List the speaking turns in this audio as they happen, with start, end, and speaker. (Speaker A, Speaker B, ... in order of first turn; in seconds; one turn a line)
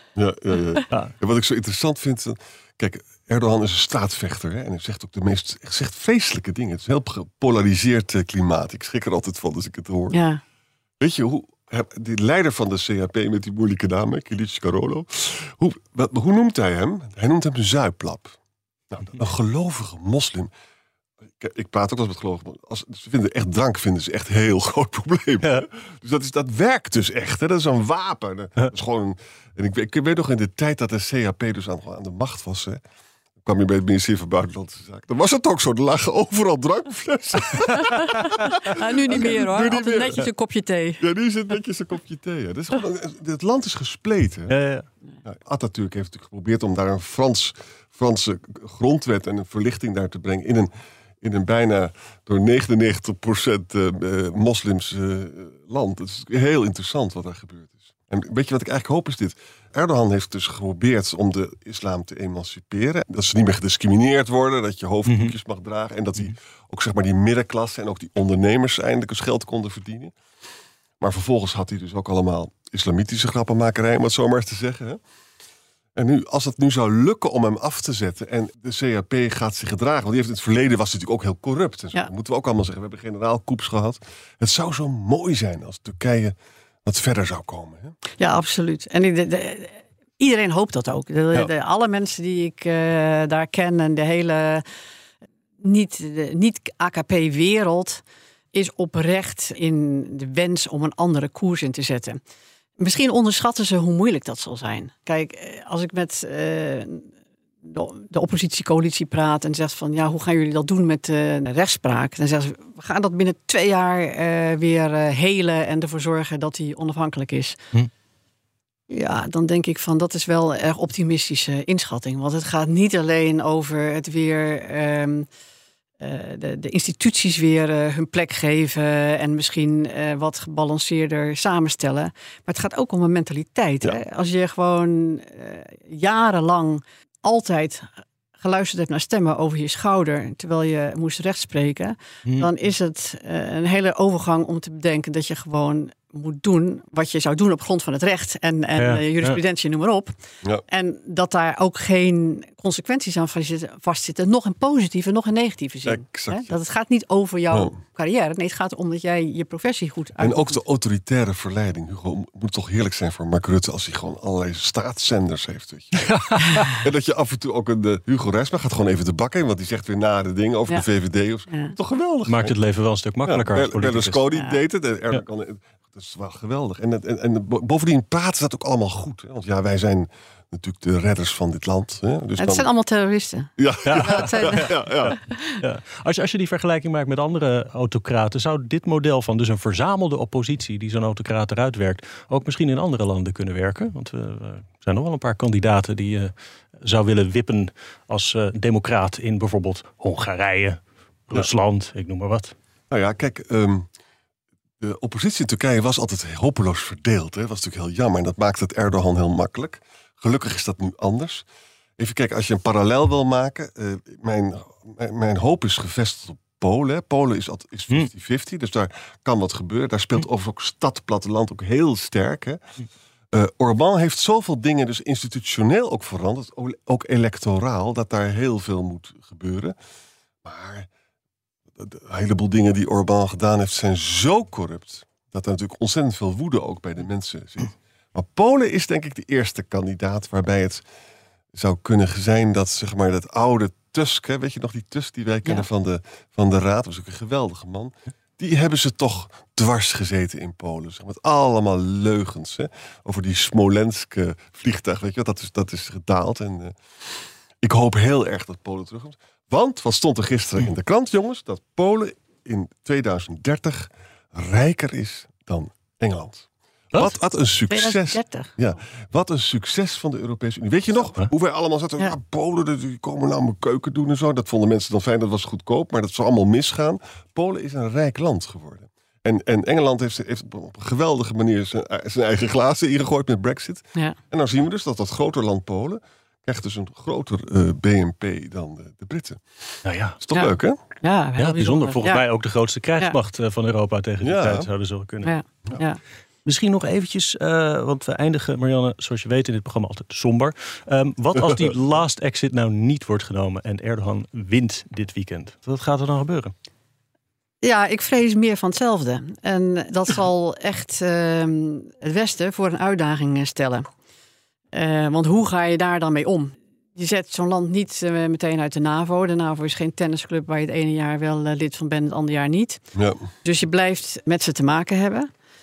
Speaker A: 0.2-10.2
Speaker B: 10.1-10.4
Speaker A: 11.0-18.4
Speaker A: 18.9-20.5
Speaker A: 21.4-32.8
Speaker A: 33.4-40.3
Speaker B: 38.2-41.0
Speaker A: 41.0-44.5
Speaker C: 44.5-44.9
Speaker A: 45.2-50.7
Speaker A: 51.2-70.1
Speaker C: 65.1-65.3
Speaker A: 71.0-75.0
Speaker A: 76.0-88.0
Speaker B: 88.2-94.6
Speaker B: 95.6-98.0
Speaker B: 98.5-102.2
Speaker B: 102.8-107.0
Speaker B: 107.7-117.6
Speaker B: 118.9-125.3
Speaker B: 126.0-150.1
Speaker C: 148.8-149.4
Speaker B: 150.7-160.6
Speaker A: 155.8-156.5
Speaker A: 160.2-172.6
Speaker C: 166.0-166.7
Speaker B: 171.5-171.8
Speaker C: 172.3-174.2
Speaker A: 173.2-182.7
Speaker B: 182.4-185.6
Speaker A: 183.6-185.2
Speaker C: 183.9-202.5
Speaker A: 202.9-203.9
Speaker A: 204.8-211.4
Speaker A: 212.0-222.6
Speaker A: 223.3-229.8
Speaker A: 230.4-230.9
Speaker A: 231.8-240.8
Speaker A: 241.5-290.8
Speaker B: 267.7-268.6
Speaker C: 289.9-290.2
Speaker B: 290.3-292.2
Speaker C: 291.4-295.4
Speaker A: 294.2-294.7
Speaker B: 295.2-296.0
Speaker C: 296.4-306.5
Speaker B: 307.6-313.9
Speaker B: 314.7-322.8
Speaker A: 322.9-323.2
Speaker B: 323.4-325.3